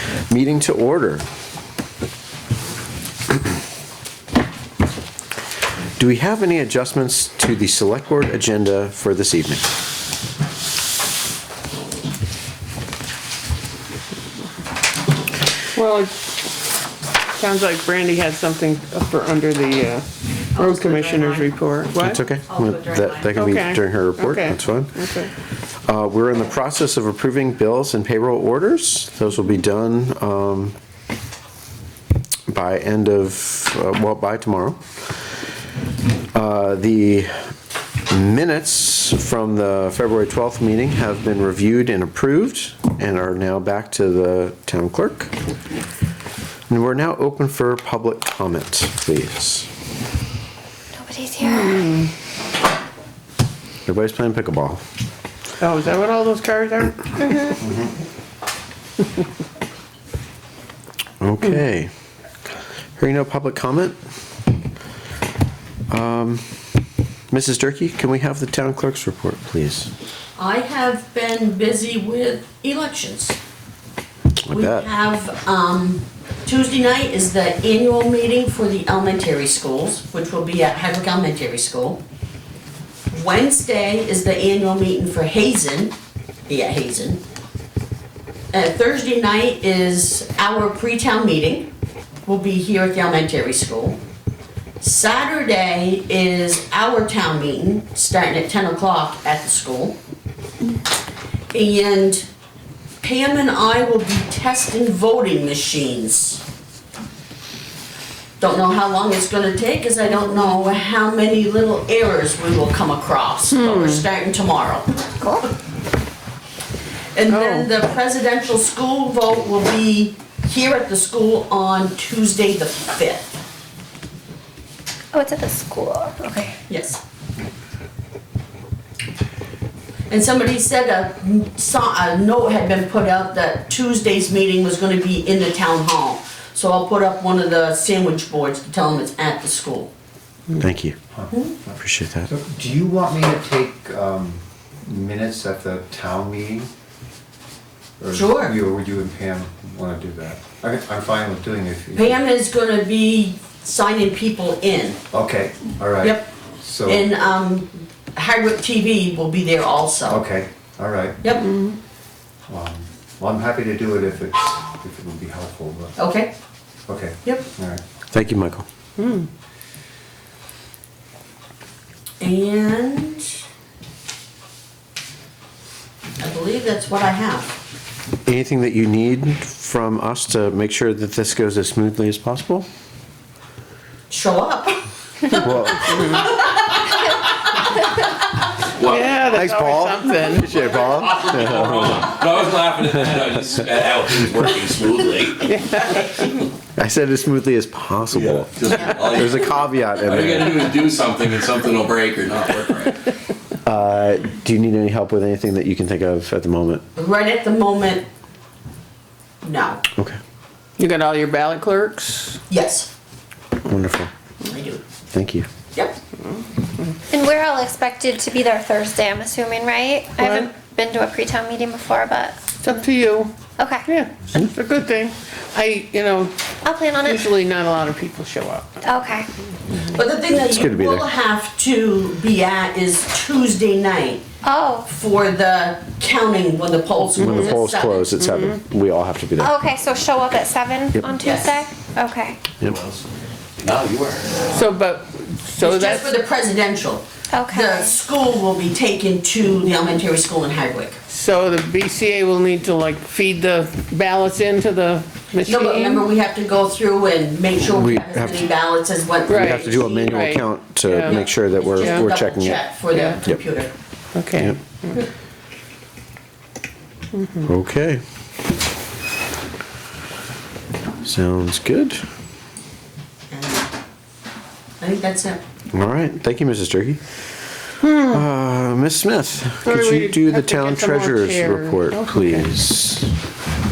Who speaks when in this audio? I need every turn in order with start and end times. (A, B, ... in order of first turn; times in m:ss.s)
0:00.3-0:01.2 A
0:06.0-0:09.7 A
0:15.7-0:16.2 B
0:17.4-0:22.2 B
0:20.5-0:21.5 C
0:21.9-0:25.1 A
0:22.4-0:23.5 C
0:23.4-0:24.6 B
0:25.8-0:30.7 A
0:32.5-0:35.0 A
0:36.3-0:37.5 A
0:38.1-0:45.3 A
0:46.7-0:49.7 A
0:50.9-0:51.8 D
0:51.5-0:52.1 B
0:53.8-0:54.8 A
0:55.6-0:57.0 B
1:01.2-1:01.9 A
1:03.0-1:04.0 A
1:05.9-1:06.4 A
1:07.3-1:09.9 A
1:10.4-1:13.4 C
1:14.4-1:14.9 A
1:14.5-1:22.0 C
1:23.1-1:25.9 C
1:26.5-1:27.2 C
1:28.5-1:31.7 C
1:32.2-1:34.0 C
1:34.8-1:40.0 C
1:41.5-1:42.2 C
1:43.0-1:46.4 C
1:48.4-1:54.9 C
1:53.5-1:54.0 B
1:55.2-1:55.5 D
1:57.1-2:03.4 C
1:57.3-1:57.7 B
2:05.1-2:06.6 D
2:06.7-2:07.0 C
2:10.1-2:19.9 C
2:20.6-2:21.0 A
2:21.1-2:21.7 E
2:21.3-2:21.5 C
2:21.7-2:22.3 A
2:22.3-2:26.7 E
2:28.0-2:32.2 E
2:28.1-2:28.5 C
2:31.9-2:35.0 C
2:35.1-2:37.1 E
2:36.0-2:36.3 C
2:36.8-2:40.2 C
2:40.1-2:41.2 E
2:41.2-2:41.5 C
2:42.5-2:45.9 E
2:46.0-2:46.3 C
2:46.9-2:47.8 E
2:48.1-2:48.6 A
2:49.0-2:49.3 B
2:52.2-2:53.4 C
2:56.2-2:57.5 C
2:58.2-3:02.7 A
3:04.1-3:04.8 C
3:05.3-3:06.2 A
3:05.3-3:07.1 C
3:08.8-3:09.3 F
3:09.0-3:10.5 B
3:09.2-3:12.1 A
3:10.5-3:15.8 F
3:16.7-3:20.7 A
3:18.1-3:23.1 F
3:23.6-3:26.8 A
3:27.0-3:28.0 C
3:29.4-3:29.8 C
3:30.8-3:32.4 B
3:32.5-3:32.9 C
3:33.6-3:34.1 A
3:34.4-3:34.8 C
3:35.1-3:35.5 A
3:37.1-3:42.4 D
3:40.2-3:40.5 B
3:42.6-3:43.3 B
3:43.6-3:43.8 D
3:43.9-3:46.4 B
3:46.6-3:47.2 D
3:47.0-3:48.7 B
3:48.8-3:49.3 D
3:49.9-3:54.2 C
3:50.3-3:51.1 A
3:54.4-3:54.9 D
3:54.9-3:58.1 C
3:57.2-3:59.5 A
3:59.4-4:02.4 D
4:01.2-4:01.6 C
4:02.7-4:03.0 F
4:03.6-4:04.4 F
4:04.5-4:06.1 B
4:05.6-4:11.0 C
4:07.3-4:08.0 D
4:11.1-4:16.0 B
4:15.4-4:20.3 C
4:17.6-4:18.5 A
4:19.3-4:19.6 B
4:19.3-4:22.6 A
4:20.2-4:21.1 B
4:21.0-4:23.7 C
4:22.9-4:23.2 B
4:24.1-4:24.9 B
4:27.2-4:27.4 B
4:27.4-4:28.0 A
4:31.0-4:32.0 A
4:33.3-4:33.7 C
4:34.8-4:35.4 C
4:35.7-4:37.0 A
4:37.9-4:43.1 A
4:39.6-4:42.5 B